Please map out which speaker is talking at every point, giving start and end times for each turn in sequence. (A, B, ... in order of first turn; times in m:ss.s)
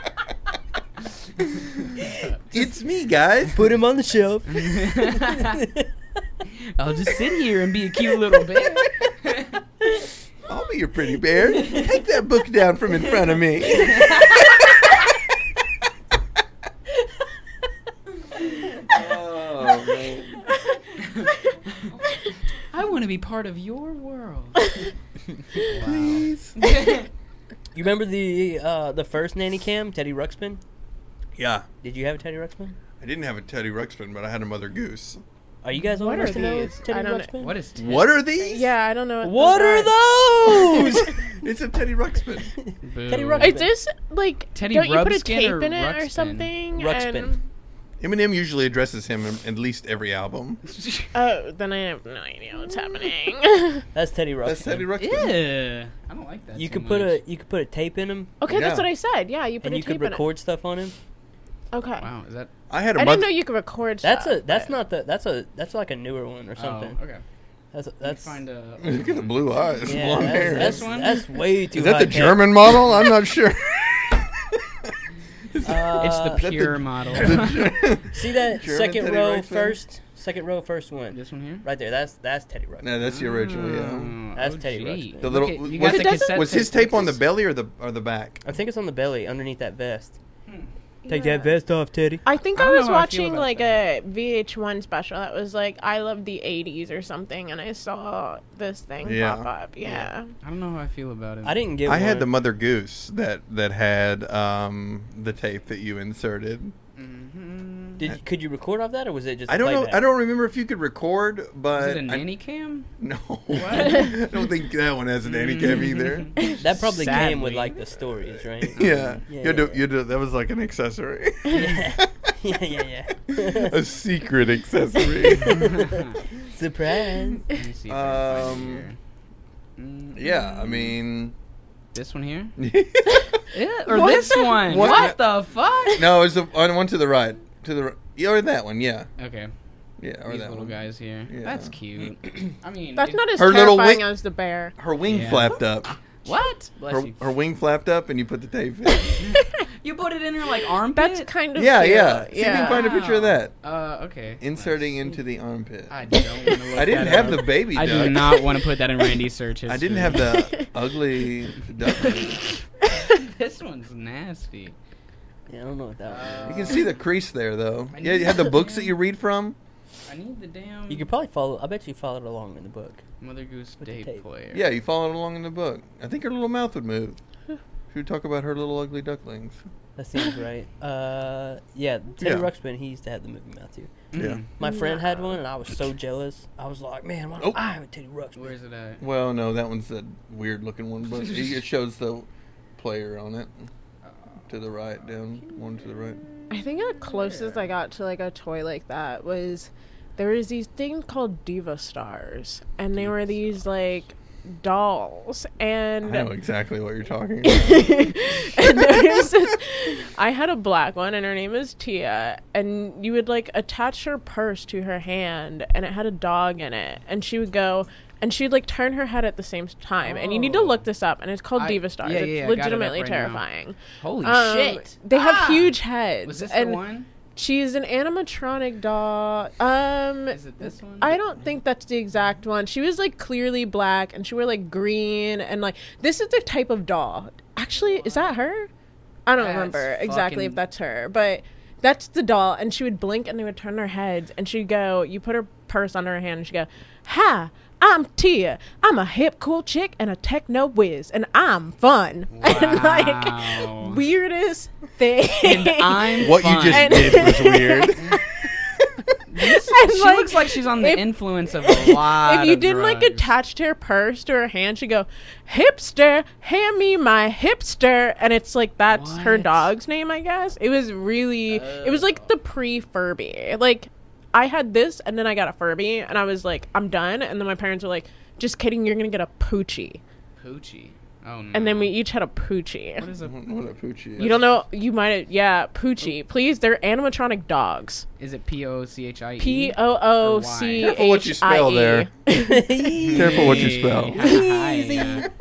0:02.1-0:02.6 A
0:02.5-0:03.6 B
0:03.5-0:05.9 C
0:04.5-0:05.6 A
0:06.5-0:09.6 A
0:10.5-0:14.1 B
0:18.8-0:20.4 B
0:22.7-0:24.8 A
0:25.6-0:27.1 A
0:25.8-0:26.5 B
0:27.7-0:30.6 C
0:31.4-0:31.6 B
0:31.8-0:32.8 C
0:33.0-0:35.2 B
0:35.6-0:37.6 C
0:36.0-0:37.3 D
0:37.4-0:38.2 A
0:37.8-0:38.7 B
0:38.4-0:40.9 D
0:39.2-0:41.2 C
0:41.4-0:42.5 B
0:42.6-0:43.7 C
0:42.8-0:43.6 A
0:43.4-0:47.4 D
0:44.5-0:46.5 A
0:46.7-0:47.3 C
0:48.0-0:50.6 B
0:50.6-0:51.1 A
0:51.1-0:53.8 D
0:53.9-0:54.9 C
0:54.4-0:55.4 B
0:55.0-0:57.2 A
0:56.5-0:58.4 C
0:58.4-1:00.2 D
0:58.5-0:58.9 B
0:59.6-1:00.9 C
1:01.7-1:02.0 D
1:02.0-1:02.5 A
1:02.7-1:03.3 B
1:03.0-1:04.7 D
1:04.0-1:07.0 C
1:06.6-1:07.2 A
1:07.7-1:08.4 C
1:08.0-1:09.4 A
1:08.8-1:10.9 B
1:09.8-1:12.6 C
1:10.0-1:11.2 A
1:11.7-1:14.9 B
1:15.5-1:19.8 B
1:15.6-1:16.5 C
1:16.0-1:17.7 A
1:17.1-1:17.4 C
1:18.1-1:22.9 C
1:21.1-1:21.6 A
1:22.8-1:24.2 B
1:23.0-1:27.2 A
1:23.7-1:25.4 C
1:25.2-1:28.4 B
1:25.7-1:27.1 D
1:28.4-1:30.2 C
1:31.0-1:31.5 D
1:31.1-1:32.2 C
1:32.2-1:40.3 D
1:32.6-1:33.8 A
1:39.0-1:39.5 B
1:39.9-1:42.0 A
1:41.4-1:42.3 C
1:41.8-1:46.7 B
1:47.0-1:48.0 A
1:48.0-1:50.0 C
1:49.5-1:52.2 B
1:51.7-1:52.9 A
1:53.0-1:56.4 B
1:53.5-1:54.1 A
1:55.2-1:57.8 A
1:56.4-1:57.2 D
1:56.5-1:59.8 C
1:58.6-2:02.1 B
1:58.8-1:59.2 A
2:01.5-2:03.8 C
2:03.3-2:05.8 B
2:05.2-2:07.5 C
2:05.7-2:06.1 A
2:07.5-2:09.0 A
2:07.9-2:08.9 B
2:09.8-2:10.9 A
2:10.1-2:11.3 B
2:11.9-2:12.5 A
2:12.6-2:13.3 B
2:13.5-2:16.1 A
2:13.9-2:15.2 B
2:14.8-2:15.0 D
2:15.9-2:19.1 B
2:19.2-2:19.5 A
2:20.0-2:20.8 B
2:20.3-2:23.2 A
2:21.3-2:21.7 B
2:23.0-2:24.7 D
2:23.4-2:24.1 B
2:24.8-2:25.9 B
2:25.0-2:25.6 A
2:26.2-2:27.2 A
2:26.9-2:29.2 B
2:29.2-2:31.3 A
2:30.9-2:32.9 D
2:31.5-2:33.5 B
2:32.4-2:35.2 A
2:34.4-2:36.0 B
2:35.9-2:40.3 A
2:36.7-2:38.3 B
2:39.7-2:42.4 B
2:43.0-2:44.8 A
2:45.5-2:46.8 C
2:46.1-2:46.8 A
2:46.4-2:49.6 B
2:47.9-2:48.9 A
2:50.0-2:51.0 A
2:50.9-2:53.0 C
2:53.2-2:54.6 A
2:53.8-2:54.2 C
2:54.5-2:57.2 B
2:57.9-2:59.6 B
3:00.0-3:08.5 C
3:02.2-3:02.5 B
3:04.1-3:04.5 A
3:04.2-3:04.4 B
3:04.6-3:05.4 D
3:08.3-3:09.0 A
3:09.0-3:13.5 B
3:14.5-3:16.2 B
3:16.5-3:26.3 D
3:17.2-3:17.6 A
3:26.0-3:28.2 B
3:27.4-3:46.8 D
3:40.0-3:40.8 A
3:41.6-3:43.4 A
3:44.0-3:47.1 A
3:47.3-3:58.7 D
3:50.3-3:51.2 A
3:57.8-3:58.3 A
3:59.2-4:17.9 D
3:59.4-4:00.6 A
4:12.3-4:14.0 A
4:15.4-4:17.3 A
4:16.2-4:18.2 B
4:19.3-4:23.3 A
4:19.4-4:40.0 D
4:28.9-4:29.6 A
4:31.5-4:32.3 A
4:40.4-4:41.9 A
4:41.5-4:43.1 D
4:43.0-4:43.5 A
4:43.2-4:44.4 B
4:44.2-4:44.5 A
4:44.2-4:48.0 D
4:48.2-4:50.9 A
4:49.4-4:53.2 D
4:50.8-4:52.1 B
4:52.3-4:55.3 C
4:53.0-4:55.3 A
4:53.1-4:54.3 B